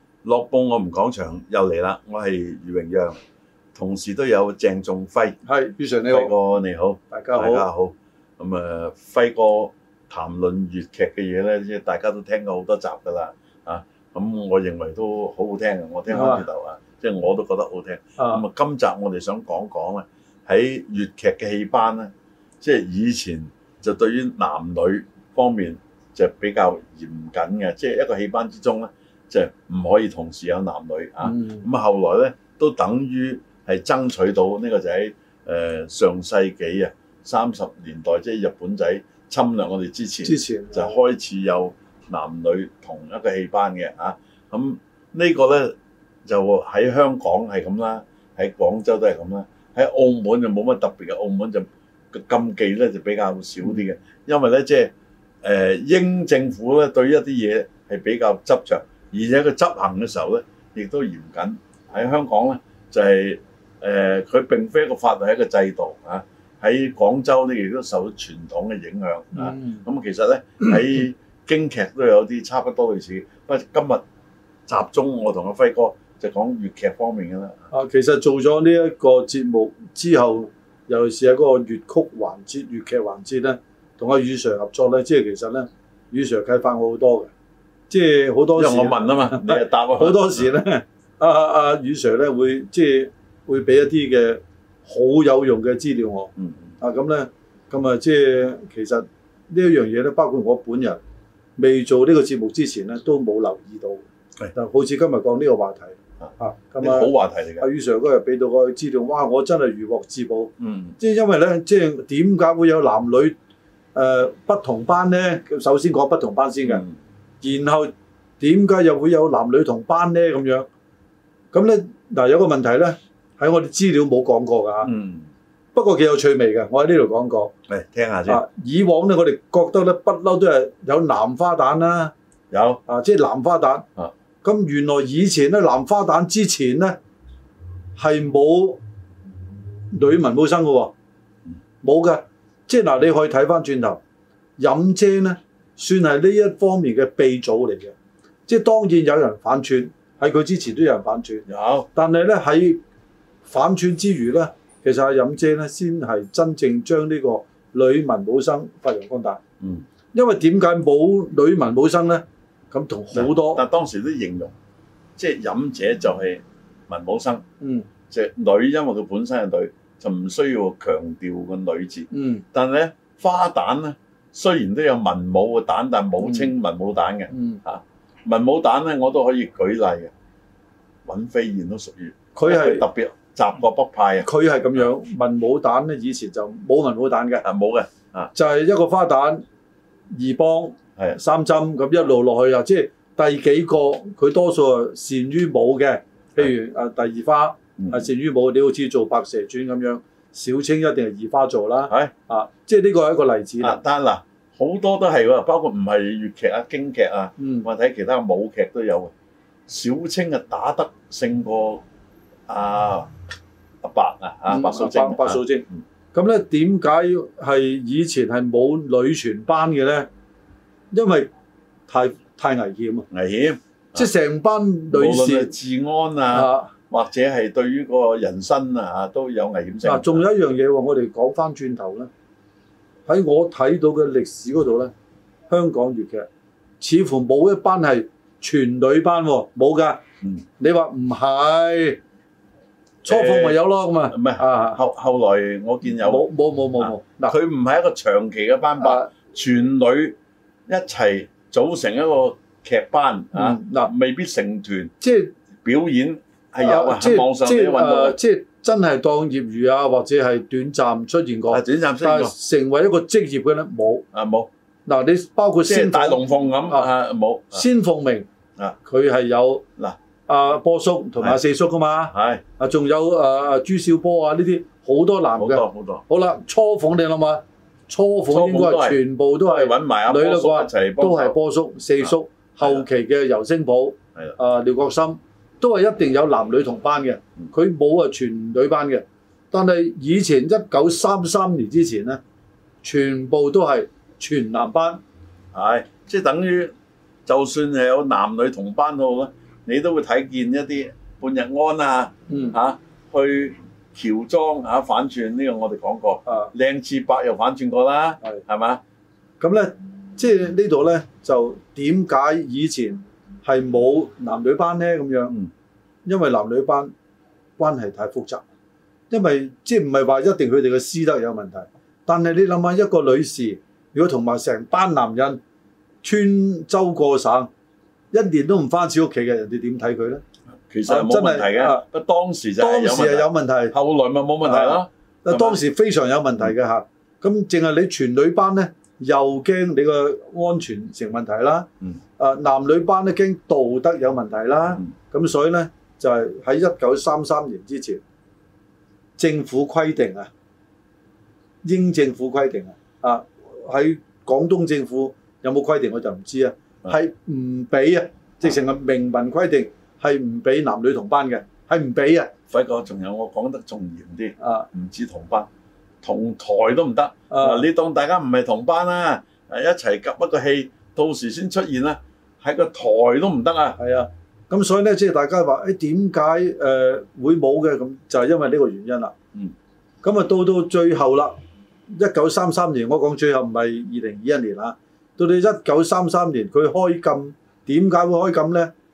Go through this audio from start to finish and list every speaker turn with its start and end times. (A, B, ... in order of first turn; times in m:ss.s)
0:00.2-0:03.2 A
0:03.8-0:05.4 A
0:05.4-0:06.3 B
0:06.1-0:54.9 A
0:07.1-0:07.6 B
0:16.1-0:16.4 B
0:18.2-0:18.4 B
0:31.2-0:31.7 B
0:40.2-0:41.0 B
0:55.4-1:14.0 A
1:09.4-1:09.8 B
1:14.7-1:17.6 A
1:17.7-1:27.3 B
1:27.9-1:41.0 B
1:28.6-1:30.5 A
1:36.4-1:36.7 A
1:41.6-1:53.4 B
1:46.8-1:47.7 A
1:50.6-1:51.0 A
1:54.0-1:56.8 B
1:56.7-1:56.9 A
1:57.4-2:00.7 B
2:01.5-2:04.9 B
2:04.8-2:05.3 A
2:05.7-2:07.5 B
2:07.7-2:08.4 A
2:08.3-2:12.1 B
2:12.5-2:12.8 A
2:12.9-2:13.8 B
2:14.4-2:17.0 B
2:18.0-2:18.8 B
2:19.9-2:20.9 B
2:21.8-2:24.0 B
2:24.6-2:28.0 B
2:28.5-2:32.8 B
2:31.5-2:31.9 A
2:33.5-2:39.4 B
2:39.6-2:39.8 A
2:40.1-2:43.6 B
2:43.1-2:44.5 A
2:45.2-2:47.4 A
2:47.6-2:47.9 B
2:48.1-3:00.1 A
2:52.1-2:52.4 B
2:56.2-2:56.5 B
2:57.3-2:57.6 B
3:01.0-3:04.8 A
3:02.3-3:02.8 B
3:04.2-3:07.4 B
3:07.4-3:08.3 A
3:08.4-3:09.4 B
3:10.1-3:23.8 B
3:17.8-3:18.1 A
3:23.6-3:29.1 A
3:27.4-3:27.7 B
3:29.7-3:31.8 A
3:32.5-3:33.1 A
3:33.8-3:35.8 A
3:34.5-3:40.1 B
3:40.9-3:41.3 B
3:41.9-3:43.1 B
3:43.1-3:44.1 A
3:44.0-3:45.5 B
3:44.9-3:50.2 A
3:46.3-3:46.7 B
3:49.8-3:52.1 B
3:53.1-3:54.9 B
3:55.5-3:56.3 B
3:56.8-4:00.0 B
4:00.6-4:02.0 B
4:03.0-4:04.8 B
4:03.1-4:06.3 A
4:05.8-4:07.4 B
4:06.8-4:10.2 A
4:08.8-4:09.1 B
4:10.7-4:14.9 A
4:13.4-4:13.9 B
4:15.0-4:15.3 B
4:15.6-4:18.2 A
4:16.6-4:24.0 B
4:21.5-4:22.3 A
4:24.1-4:24.5 A
4:24.9-4:26.9 B
4:25.6-4:27.6 A
4:27.5-4:28.3 B
4:28.8-4:29.6 B
4:30.3-4:52.2 B
4:32.1-4:32.4 A
4:35.4-4:36.0 A
4:38.3-4:41.3 A
4:42.0-4:42.9 A
4:52.8-4:55.0 B
4:55.5-4:56.7 A
4:57.3-5:08.8 A
5:02.3-5:02.6 B
5:06.3-5:06.5 B
5:09.4-5:15.4 B
5:16.0-5:16.9 B
5:17.6-5:18.4 B
5:19.1-5:25.4 B
5:26.0-5:27.5 B
5:28.1-5:30.2 B
5:30.7-5:35.6 A
5:30.9-5:31.8 B
5:32.6-5:33.8 B
5:34.4-5:48.0 B
5:49.2-5:50.3 B
5:51.6-6:02.3 B
6:02.5-6:05.5 A
6:04.4-6:04.7 B
6:06.0-6:13.8 A
6:07.3-6:07.7 B
6:13.8-6:19.2 B
6:20.0-6:21.4 B
6:21.9-6:28.7 B